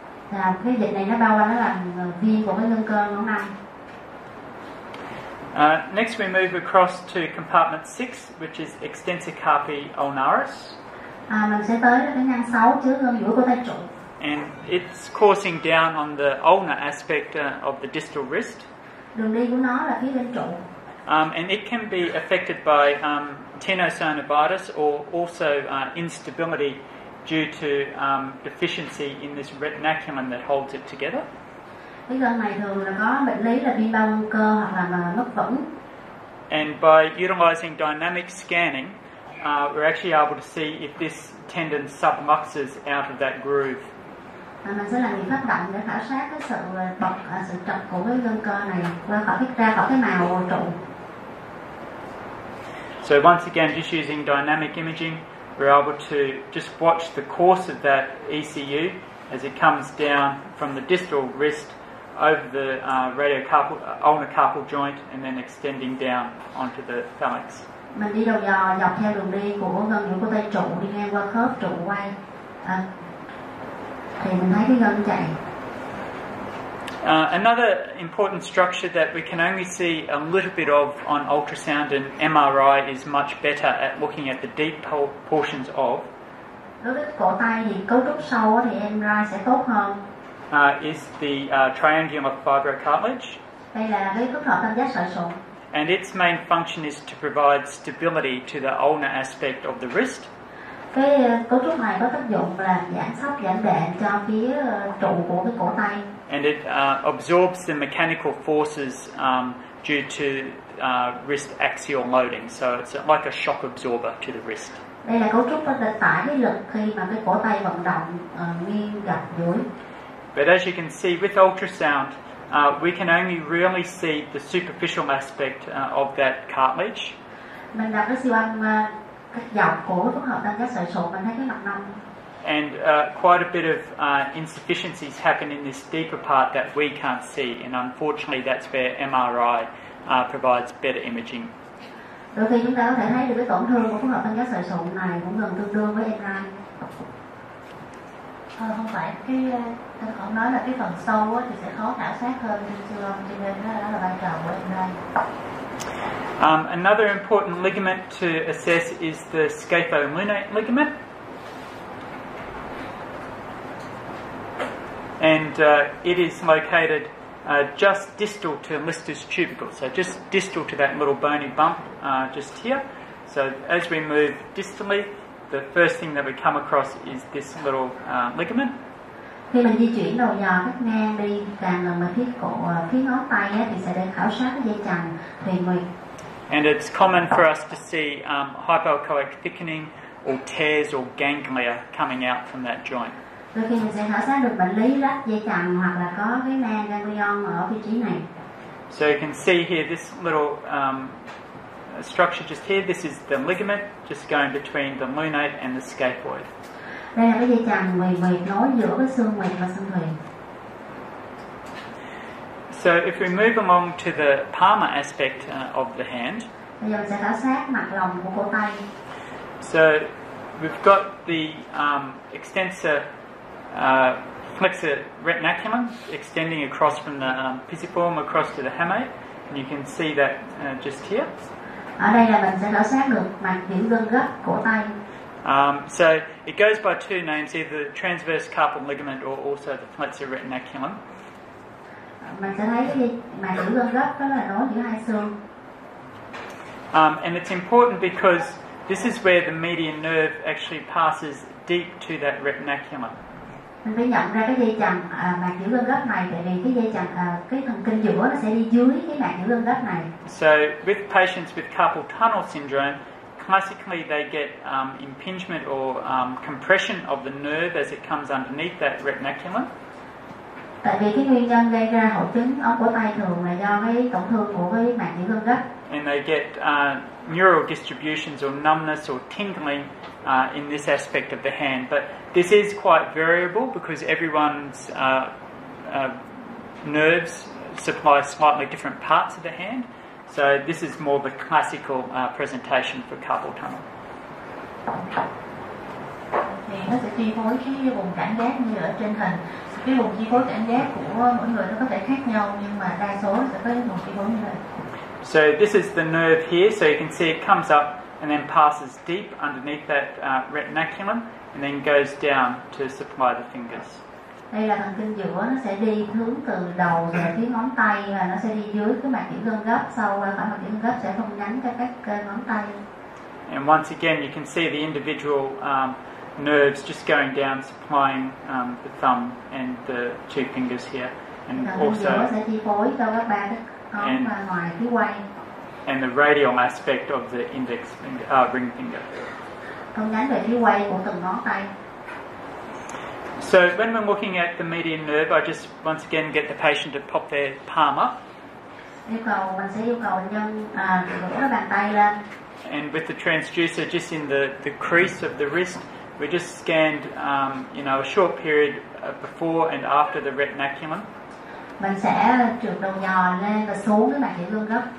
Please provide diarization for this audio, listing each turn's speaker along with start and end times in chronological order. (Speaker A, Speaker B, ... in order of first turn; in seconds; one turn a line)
Speaker A: 0.3-3.5
Speaker B: 5.5-10.8
Speaker A: 11.3-13.9
Speaker B: 14.2-18.7
Speaker A: 19.1-20.6
Speaker B: 21.1-31.2
Speaker A: 32.1-35.7
Speaker B: 36.5-43.9
Speaker A: 44.6-50.8
Speaker B: 53.0-67.7
Speaker A: 68.0-72.9
Speaker A: 74.2-75.4
Speaker B: 77.0-86.1
Speaker A: 86.8-90.0
Speaker B: 90.5-93.4
Speaker A: 93.7-95.4
Speaker B: 95.7-100.3
Speaker A: 100.9-106.1
Speaker B: 106.3-114.8
Speaker A: 115.0-119.7
Speaker B: 120.3-127.2
Speaker A: 127.7-132.0
Speaker B: 132.4-141.5
Speaker A: 142.3-146.5
Speaker C: 148.6-155.0
Speaker B: 156.4-160.9
Speaker B: 165.2-178.7
Speaker A: 179.5-185.8
Speaker B: 186.5-193.2
Speaker A: 193.5-198.3
Speaker B: 198.9-201.2
Speaker B: 201.9-206.5
Speaker A: 207.2-210.2
Speaker B: 212.7-216.5
Speaker A: 216.8-218.9
Speaker B: 219.6-223.0
Speaker B: 223.7-231.3
Speaker A: 232.0-235.0
Speaker B: 235.4-241.0
Speaker A: 242.2-245.4
Speaker B: 246.9-253.2
Speaker A: 253.8-260.1
Speaker B: 260.2-269.7
Speaker A: 270.8-275.7
Speaker B: 275.9-286.3
Speaker B: 286.8-293.9
Speaker C: 296.5-304.6
Speaker B: 305.2-314.0
Speaker A: 314.5-322.8
Speaker B: 323.5-332.3
Speaker A: 331.6-335.2
Speaker B: 334.0-334.3
Speaker B: 335.9-339.2
Speaker A: 339.9-341.7
Speaker B: 343.4-348.2
Speaker A: 349.1-352.2
Speaker B: 352.6-361.1
Speaker A: 361.8-364.9